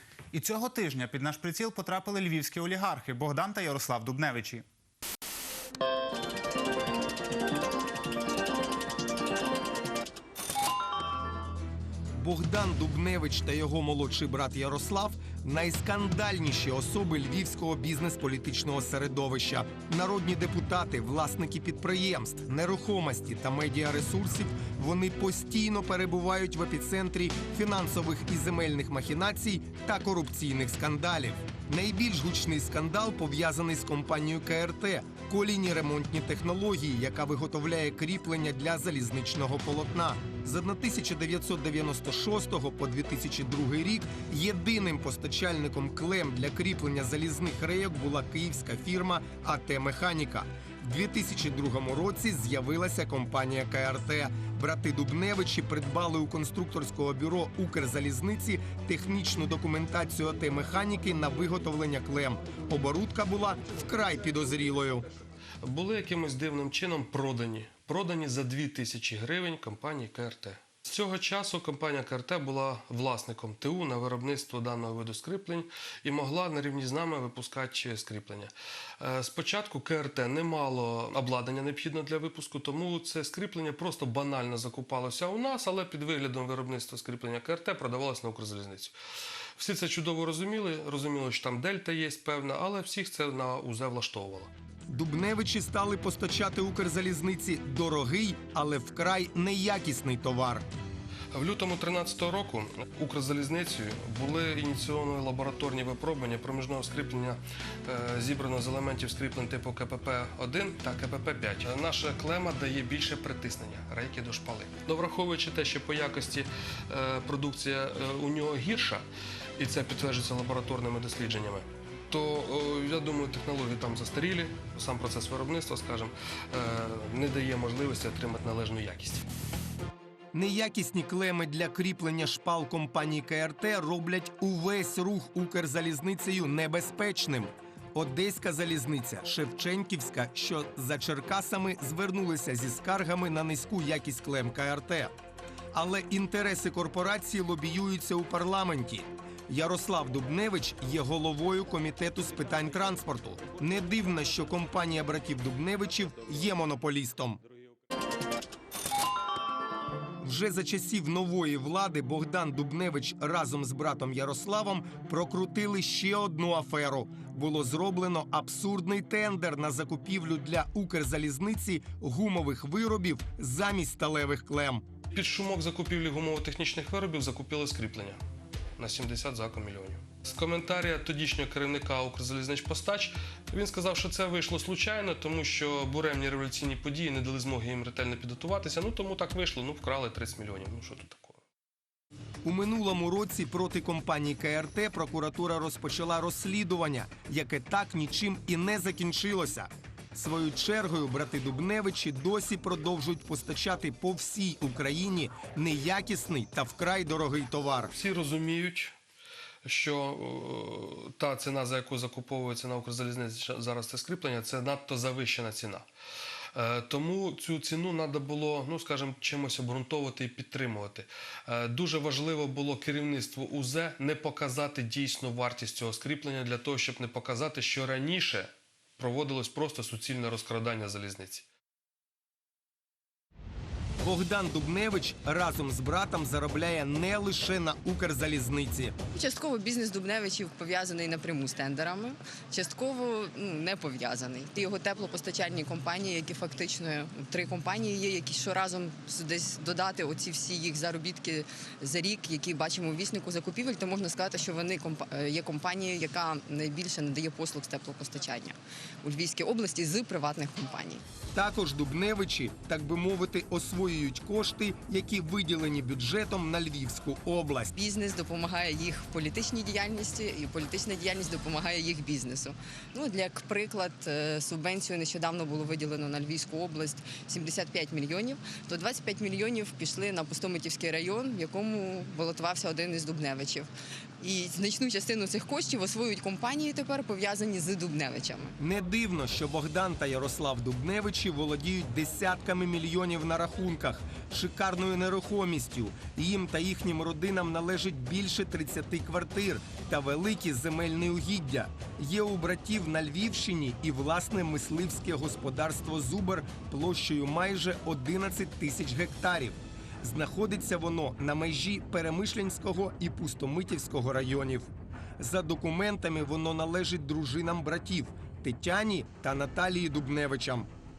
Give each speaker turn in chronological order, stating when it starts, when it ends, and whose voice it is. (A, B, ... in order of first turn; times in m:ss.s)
0:00.3-0:04.6 A
0:12.1-1:05.0 B
1:05.6-1:28.9 C
1:29.6-1:34.5 C
1:34.9-1:40.6 B
1:41.3-1:59.0 C
1:59.6-2:09.3 C
2:10.3-2:25.1 B
2:25.7-2:37.4 B
2:40.2-2:54.8 B
2:55.1-2:58.2 C
2:58.8-3:11.4 C
3:12.4-3:27.9 B
3:27.9-3:28.9 C
3:29.6-3:35.9 C
3:36.5-3:51.4 C
3:54.0-3:59.0 B
3:59.1-4:21.0 D
4:21.3-4:27.7 B
4:27.7-4:48.6 D
4:48.6-5:20.7 B